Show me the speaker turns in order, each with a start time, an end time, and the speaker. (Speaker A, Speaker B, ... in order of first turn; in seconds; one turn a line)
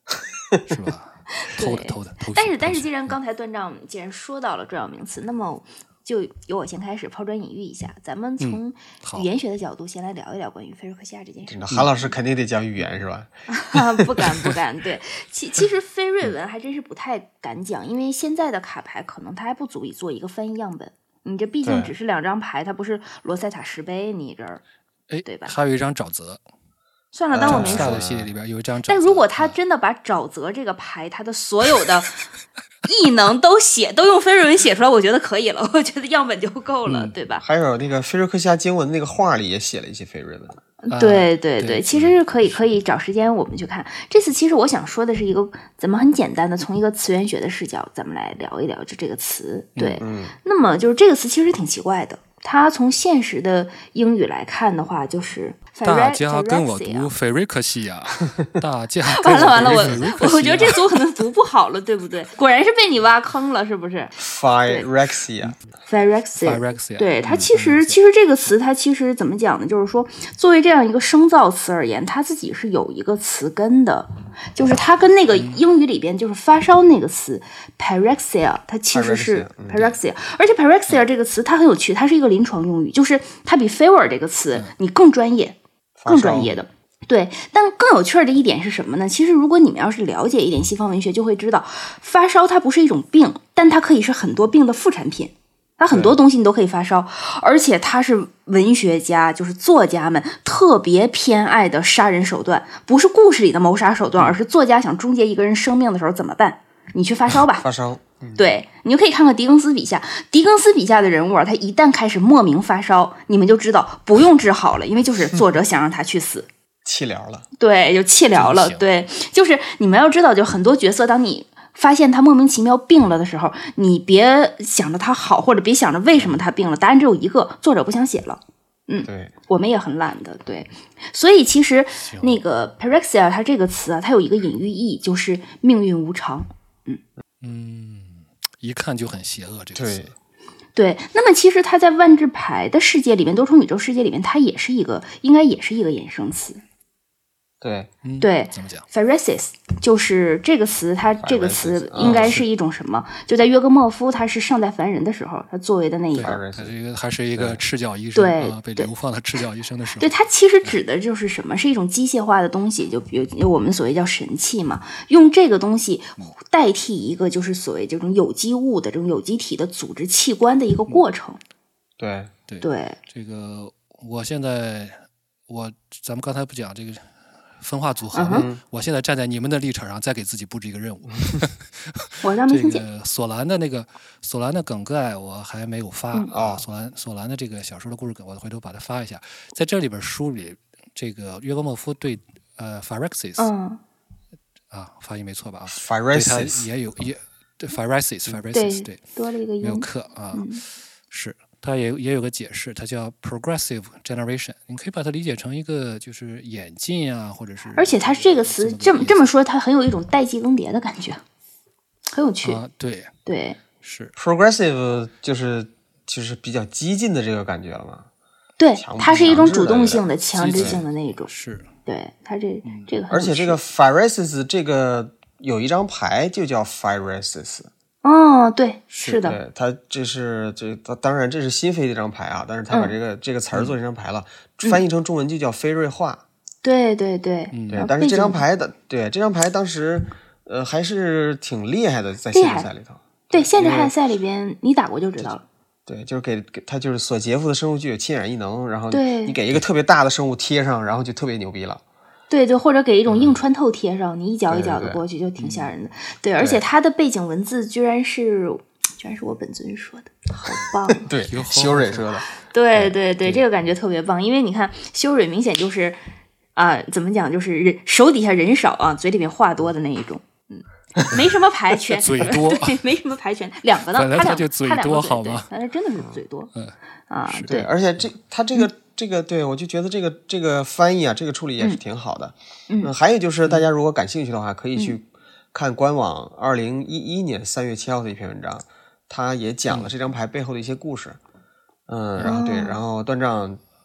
Speaker A: 0.7-3.1
Speaker B: 1.5-12.1
Speaker A: 8.4-9.3
Speaker C: 11.5-13.3
Speaker B: 13.5-24.6
Speaker C: 21.6-21.9
Speaker A: 25.1-26.4
Speaker B: 25.2-25.6
Speaker B: 27.1-28.0
Speaker C: 27.3-28.3
Speaker A: 27.4-29.6
Speaker B: 28.9-32.2
Speaker B: 32.8-37.5
Speaker A: 36.9-37.1
Speaker C: 37.4-40.6
Speaker B: 40.8-57.1
Speaker A: 40.9-42.6
Speaker A: 49.8-50.0
Speaker C: 50.0-50.3
Speaker A: 55.8-60.9
Speaker B: 59.0-64.9
Speaker C: 59.5-60.0
Speaker C: 64.2-65.5
Speaker B: 65.8-85.5
Speaker A: 66.4-68.0
Speaker C: 78.9-80.0
Speaker C: 86.0-86.6
Speaker B: 86.1-107.6
Speaker C: 95.9-96.2
Speaker C: 107.6-108.4
Speaker B: 108.3-116.5
Speaker C: 116.8-117.5
Speaker B: 117.6-137.0
Speaker A: 118.3-118.9
Speaker C: 126.1-126.4
Speaker C: 129.0-129.3
Speaker A: 132.0-132.4
Speaker A: 137.4-140.1
Speaker C: 139.7-140.1
Speaker B: 140.7-146.6
Speaker C: 147.6-147.9
Speaker A: 148.0-148.9
Speaker B: 148.2-156.4
Speaker C: 151.2-152.4
Speaker A: 152.0-152.4
Speaker A: 156.1-160.8
Speaker C: 156.2-156.7
Speaker C: 157.3-157.6
Speaker B: 158.1-158.9
Speaker B: 160.0-171.4
Speaker C: 172.0-172.3
Speaker A: 172.5-193.5
Speaker B: 172.6-173.0
Speaker B: 178.1-178.5
Speaker C: 178.3-178.6
Speaker B: 182.2-182.8
Speaker C: 186.3-186.7
Speaker B: 193.4-193.8
Speaker A: 194.7-199.0
Speaker C: 195.7-196.7
Speaker B: 198.5-200.6
Speaker A: 199.6-200.4
Speaker A: 201.1-209.3
Speaker B: 207.8-211.2
Speaker B: 212.1-212.6
Speaker A: 212.4-213.1
Speaker B: 213.2-213.6
Speaker A: 213.8-214.1
Speaker C: 214.2-218.1
Speaker B: 218.6-221.3
Speaker C: 218.8-220.8
Speaker A: 219.0-219.5
Speaker A: 220.3-221.7
Speaker B: 221.9-223.6
Speaker A: 222.6-222.9
Speaker C: 223.1-227.7
Speaker B: 228.0-229.4
Speaker A: 228.9-229.2
Speaker C: 229.1-236.2
Speaker B: 232.7-232.9
Speaker B: 236.6-238.4
Speaker A: 237.5-237.9
Speaker C: 237.7-243.9
Speaker B: 242.3-242.7
Speaker B: 243.3-245.4
Speaker C: 245.9-251.8
Speaker B: 248.9-249.4
Speaker B: 252.3-261.1
Speaker C: 254.5-255.7
Speaker C: 256.4-256.6
Speaker C: 261.0-263.4
Speaker A: 261.2-262.1
Speaker B: 262.4-266.0
Speaker B: 266.6-276.5
Speaker A: 271.9-272.8
Speaker A: 273.9-275.5
Speaker B: 277.1-277.7
Speaker A: 277.2-277.6
Speaker C: 277.5-291.2
Speaker C: 291.9-293.6
Speaker B: 292.2-292.8